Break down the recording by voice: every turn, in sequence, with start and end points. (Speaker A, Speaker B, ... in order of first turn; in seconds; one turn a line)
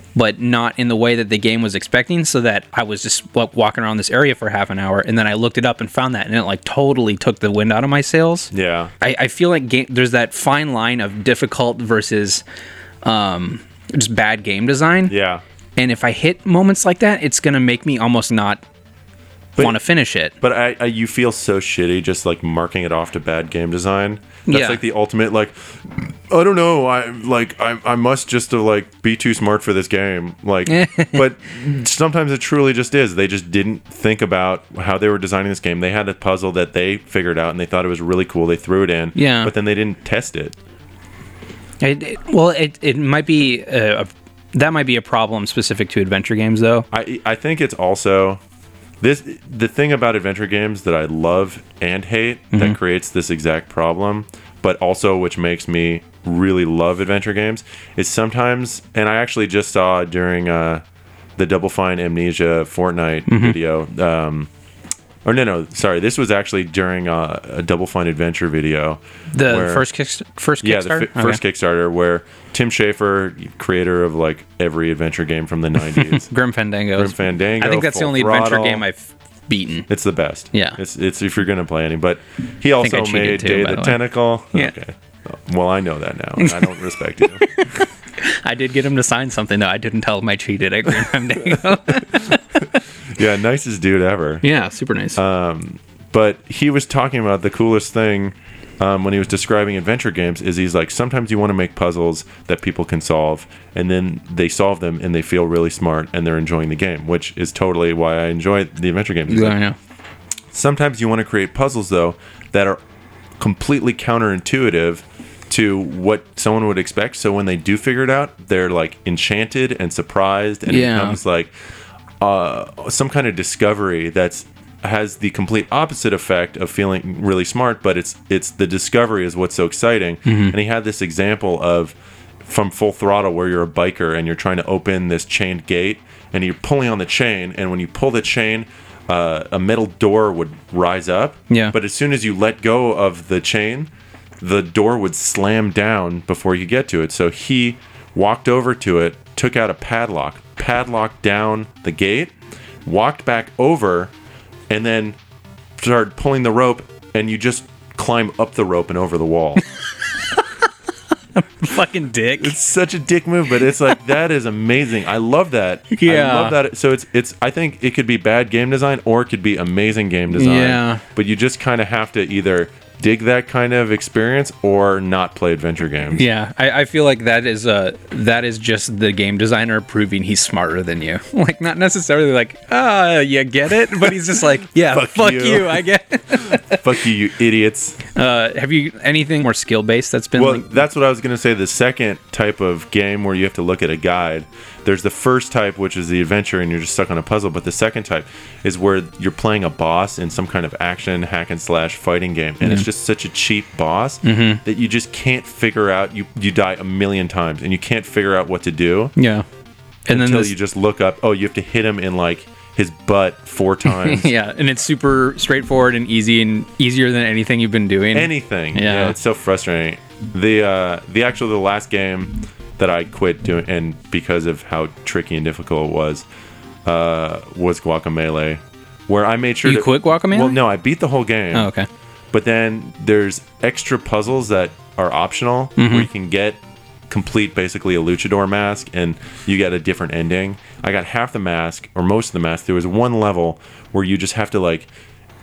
Speaker A: 0.2-12.4
Speaker B: 8.5-8.9
Speaker A: 13.0-15.1
Speaker B: 15.1-15.4
Speaker A: 15.8-18.6
Speaker A: 19.6-20.3
Speaker B: 20.4-40.6
Speaker A: 24.5-24.8
Speaker A: 30.7-31.2
Speaker A: 39.2-39.5
Speaker A: 41.8-46.9
Speaker B: 46.9-48.4
Speaker B: 49.0-60.8
Speaker A: 52.5-52.8
Speaker B: 61.4-64.5
Speaker A: 63.3-63.5
Speaker B: 65.2-69.9
Speaker A: 69.3-71.4
Speaker B: 70.6-76.3
Speaker A: 75.9-79.9
Speaker B: 77.0-78.8
Speaker B: 79.9-87.5
Speaker A: 80.5-80.8
Speaker A: 82.8-84.0
Speaker A: 86.4-86.8
Speaker A: 87.4-92.8
Speaker B: 93.1-94.4
Speaker A: 94.4-95.2
Speaker B: 95.2-109.6
Speaker A: 109.3-109.8
Speaker B: 110.5-112.8
Speaker B: 113.4-121.5
Speaker A: 120.7-121.2
Speaker B: 122.2-143.9
Speaker A: 130.3-130.6
Speaker A: 141.5-141.8
Speaker B: 144.4-152.3
Speaker B: 152.8-154.1
Speaker B: 154.7-155.2
Speaker B: 155.8-159.6
Speaker A: 161.4-162.6
Speaker B: 162.4-176.3
Speaker A: 165.9-166.6
Speaker A: 170.3-171.0
Speaker A: 176.1-186.8
Speaker B: 184.8-188.0
Speaker A: 188.1-190.7
Speaker B: 190.4-209.1
Speaker A: 204.2-204.6
Speaker A: 209.2-209.4
Speaker A: 210.1-210.5
Speaker B: 210.1-214.3
Speaker A: 213.9-219.2
Speaker B: 218.1-226.3
Speaker B: 226.8-231.7
Speaker A: 229.6-230.6
Speaker A: 231.5-231.9
Speaker B: 232.3-244.9
Speaker A: 235.8-236.1